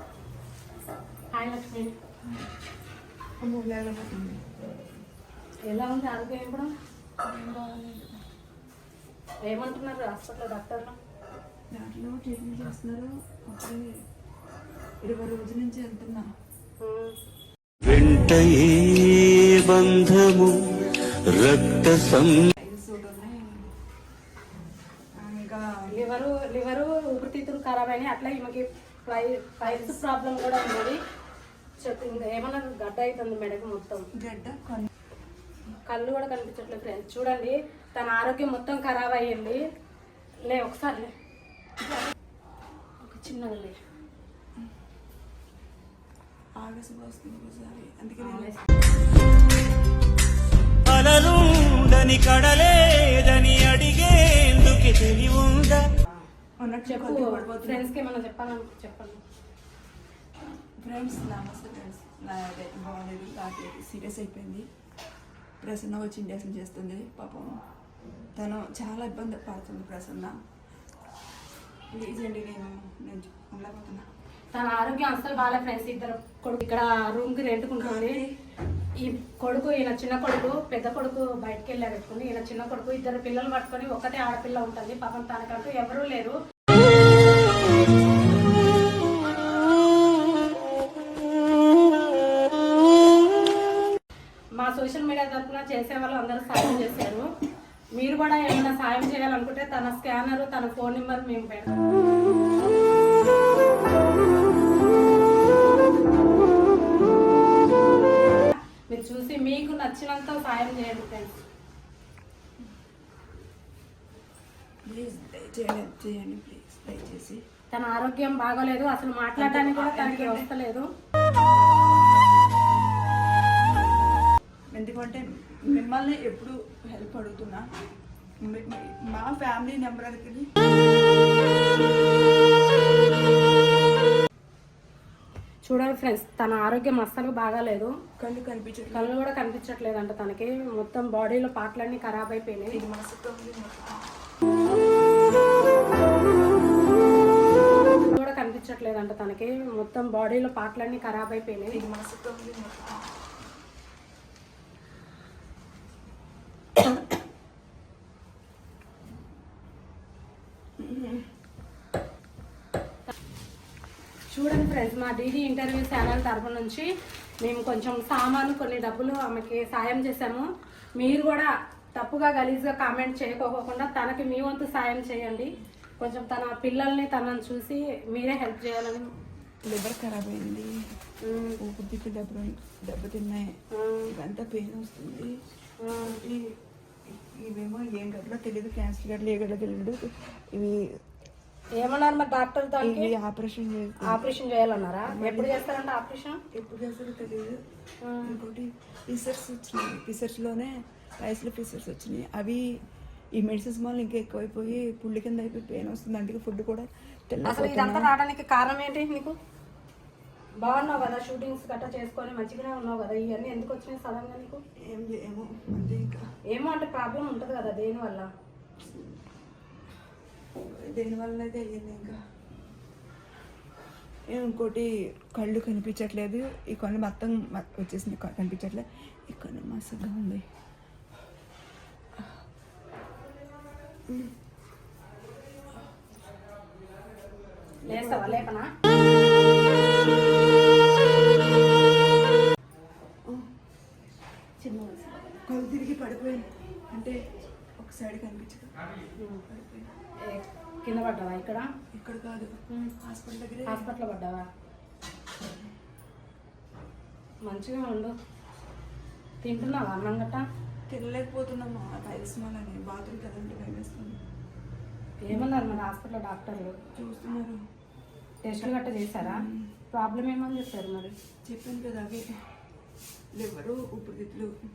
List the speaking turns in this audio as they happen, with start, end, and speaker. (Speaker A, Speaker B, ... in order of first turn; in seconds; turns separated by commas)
Speaker A: 1.3-1.9, Speaker B: 3.4-4.5, Speaker A: 5.7-6.7, Speaker B: 7.2-8.2, Speaker A: 9.5-11.0, Speaker B: 11.7-13.9, Speaker B: 15.0-16.3, Speaker A: 16.8-17.1, Speaker C: 17.8-20.6, Speaker C: 21.3-22.4, Speaker B: 22.5-23.6, Speaker B: 25.2-26.0, Speaker A: 25.9-31.0, Speaker B: 29.6-30.0, Speaker A: 31.8-34.1, Speaker B: 34.1-34.9, Speaker A: 35.9-39.6, Speaker A: 40.5-41.1, Speaker A: 43.0-43.8, Speaker B: 46.6-48.5, Speaker A: 48.2-48.6, Speaker C: 50.9-55.9, Speaker B: 56.6-57.9, Speaker A: 56.9-59.2, Speaker B: 60.8-64.7, Speaker B: 65.6-67.6, Speaker B: 68.4-70.3, Speaker B: 71.9-74.1, Speaker A: 74.5-78.2, Speaker B: 77.8-78.3, Speaker A: 79.0-86.4, Speaker A: 94.6-97.3, Speaker A: 98.0-101.8, Speaker A: 108.9-111.3, Speaker B: 114.9-117.4, Speaker A: 117.7-120.9, Speaker B: 119.4-120.5, Speaker B: 124.7-127.6, Speaker B: 128.4-130.5, Speaker A: 135.7-137.9, Speaker B: 138.2-139.1, Speaker A: 138.9-142.8, Speaker B: 142.7-144.0, Speaker A: 148.0-151.8, Speaker B: 151.7-153.1, Speaker B: 160.8-161.2, Speaker A: 164.3-166.9, Speaker A: 167.4-170.5, Speaker A: 171.0-179.1, Speaker B: 179.6-180.8, Speaker A: 181.2-181.6, Speaker B: 181.6-183.5, Speaker A: 183.7-184.1, Speaker B: 184.1-185.3, Speaker A: 185.8-186.2, Speaker B: 186.1-190.9, Speaker A: 191.8-193.1, Speaker B: 192.8-194.3, Speaker A: 194.0-196.4, Speaker B: 195.1-195.7, Speaker B: 196.5-197.6, Speaker A: 198.0-198.4, Speaker B: 198.2-202.7, Speaker B: 203.4-208.1, Speaker A: 207.4-209.4, Speaker A: 210.6-214.6, Speaker B: 214.9-216.2, Speaker A: 216.5-218.3, Speaker B: 220.6-222.2, Speaker B: 224.3-230.4, Speaker B: 234.1-234.3, Speaker B: 237.8-238.5, Speaker A: 237.9-238.7, Speaker B: 239.1-240.6, Speaker A: 244.6-245.4, Speaker B: 245.4-247.2, Speaker B: 247.8-248.8, Speaker A: 249.2-249.4, Speaker B: 249.5-249.9, Speaker A: 250.3-251.7, Speaker B: 251.9-253.9, Speaker A: 253.7-254.4, Speaker A: 257.5-258.1, Speaker A: 259.4-260.4, Speaker B: 260.9-264.2, Speaker A: 265.2-266.8, Speaker B: 266.9-267.6, Speaker A: 268.4-271.1, Speaker B: 269.2-269.7, Speaker B: 271.5-272.3, Speaker B: 273.4-274.5